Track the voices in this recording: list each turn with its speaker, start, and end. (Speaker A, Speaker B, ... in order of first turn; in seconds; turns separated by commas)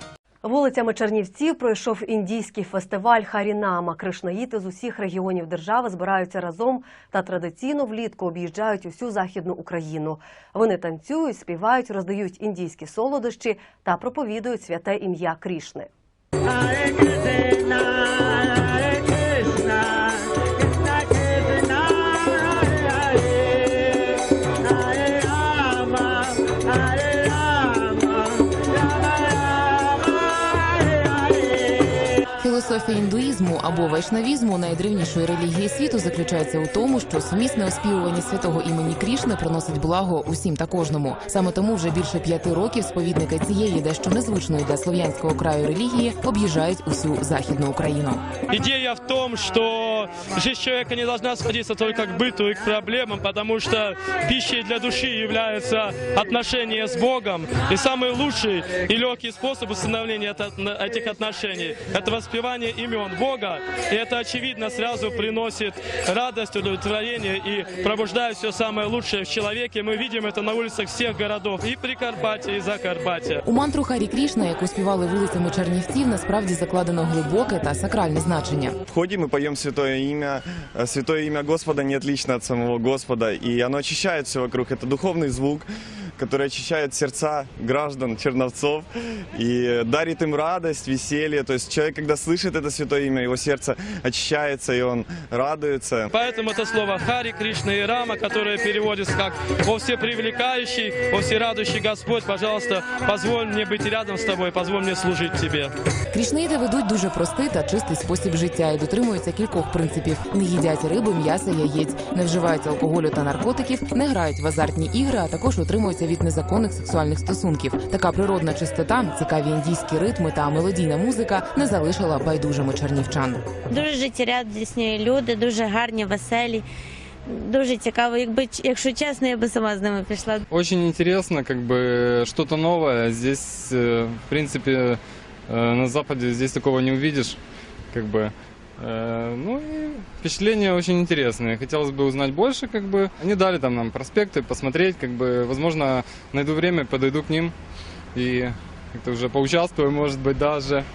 Speaker A: 0.4-15.9, Speaker B: 32.4-48.2, Speaker C: 48.5-73.4, Speaker B: 73.4-78.8, Speaker D: 78.9-96.1, Speaker C: 96.1-105.7, Speaker B: 106.1-123.4, Speaker E: 123.7-126.6, Speaker E: 127.3-130.4, Speaker F: 130.5-137.4, Speaker F: 137.9-147.5, Speaker F: 148.1-150.8